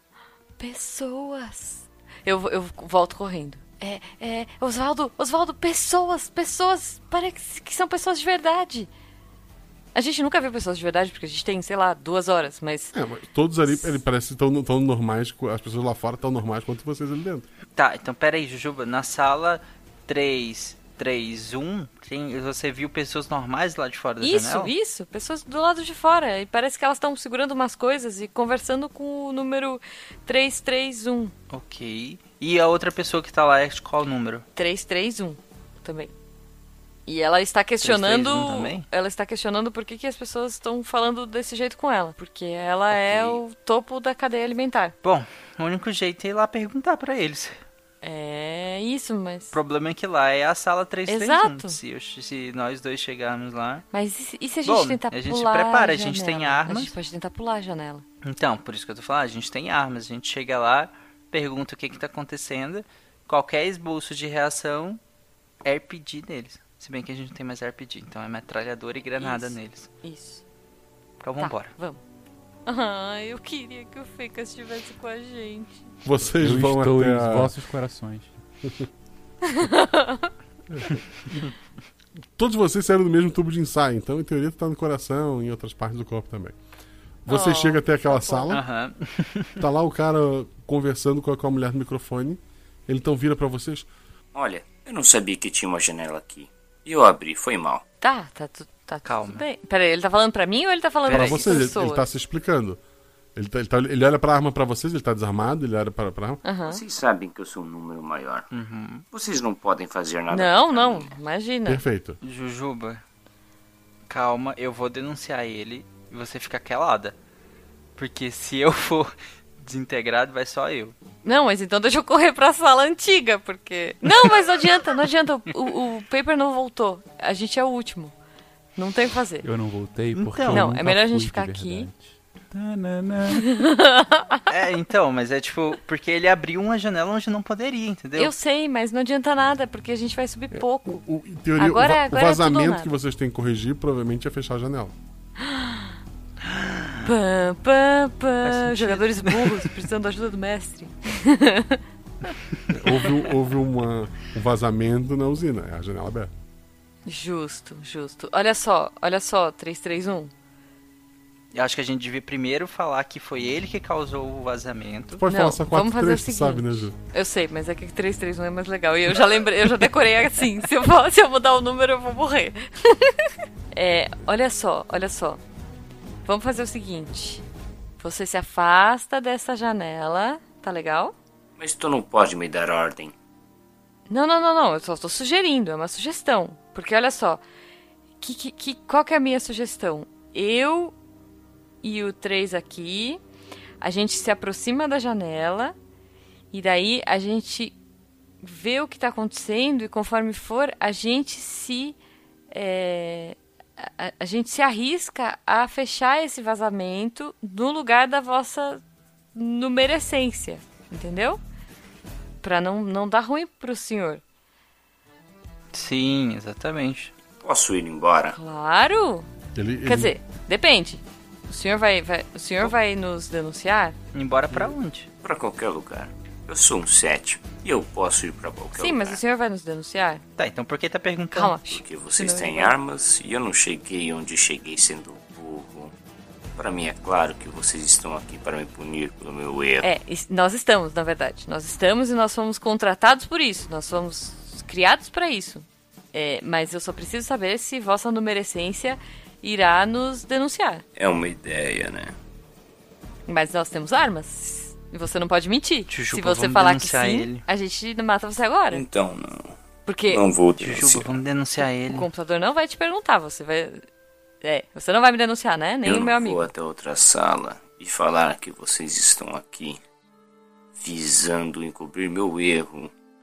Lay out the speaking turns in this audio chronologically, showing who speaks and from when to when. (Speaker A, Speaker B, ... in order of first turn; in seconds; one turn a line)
Speaker A: 0.6-8.9
Speaker A: 9.9-12.9
Speaker B: 12.9-17.5
Speaker A: 13.7-14.0
Speaker C: 17.8-24.7
Speaker A: 24.2-31.3
Speaker C: 31.5-34.4
Speaker A: 34.5-36.1
Speaker A: 37.1-45.0
Speaker C: 37.8-38.9
Speaker C: 42.9-43.4
Speaker C: 45.0-47.6
Speaker A: 48.0-49.5
Speaker C: 49.5-53.9
Speaker A: 51.1-51.8
Speaker A: 53.9-58.0
Speaker C: 54.6-56.9
Speaker C: 58.2-65.0
Speaker C: 65.6-69.9
Speaker A: 69.2-70.4
Speaker C: 71.2-71.7
Speaker A: 71.4-72.0
Speaker A: 72.7-75.9
Speaker B: 76.0-77.5
Speaker D: 76.4-78.4
Speaker A: 79.6-80.2
Speaker B: 80.7-81.0
Speaker B: 82.4-86.6
Speaker B: 87.3-88.6
Speaker A: 87.3-88.6
Speaker C: 88.5-89.6
Speaker B: 89.6-93.9
Speaker E: 94.3-97.8
Speaker A: 98.0-102.1
Speaker C: 99.0-99.5
Speaker C: 101.1-101.7
Speaker B: 101.1-102.8
Speaker B: 103.4-106.4
Speaker A: 106.4-106.8
Speaker E: 106.6-108.5
Speaker C: 108.5-109.0
Speaker E: 109.1-111.1
Speaker A: 110.3-111.8
Speaker B: 111.7-112.2
Speaker C: 112.2-113.0
Speaker C: 114.1-117.2
Speaker C: 118.0-121.0
Speaker A: 121.2-128.1
Speaker A: 128.8-129.5
Speaker D: 129.4-133.4
Speaker C: 130.1-130.7
Speaker A: 130.5-131.9
Speaker A: 133.4-134.4
Speaker C: 134.5-138.3
Speaker A: 138.2-141.0
Speaker B: 140.5-144.9
Speaker A: 141.6-142.9
Speaker A: 145.4-145.9
Speaker C: 146.6-147.0
Speaker A: 147.0-151.8
Speaker C: 148.4-149.7
Speaker B: 152.7-156.3
Speaker A: 157.1-160.3
Speaker C: 161.5-165.2
Speaker B: 165.2-167.0
Speaker A: 165.3-173.1
Speaker A: 173.7-175.4
Speaker A: 176.2-177.4
Speaker A: 178.0-181.2
Speaker E: 181.6-183.1
Speaker A: 184.1-187.4
Speaker A: 188.2-190.9
Speaker A: 191.8-193.2
Speaker A: 193.8-195.8
Speaker A: 196.5-197.8
Speaker A: 198.4-202.0
Speaker A: 202.5-208.8
Speaker A: 209.3-211.4
Speaker A: 212.4-214.2
Speaker C: 215.7-217.1
Speaker E: 217.4-218.4
Speaker A: 218.3-219.3
Speaker B: 219.6-220.1
Speaker A: 219.8-224.0
Speaker C: 224.1-225.1
Speaker E: 225.2-229.2
Speaker A: 228.8-230.2
Speaker C: 230.4-231.6
Speaker A: 231.3-232.8
Speaker E: 231.8-235.9
Speaker E: 236.6-239.9
Speaker A: 239.8-250.8
Speaker E: 251.0-252.1
Speaker A: 253.3-258.8
Speaker C: 255.9-257.4
Speaker E: 258.7-259.6
Speaker A: 259.9-260.2
Speaker E: 260.1-261.1
Speaker C: 260.6-262.1
Speaker A: 261.9-263.8
Speaker A: 264.4-266.5
Speaker E: 265.8-269.8
Speaker E: 270.8-272.9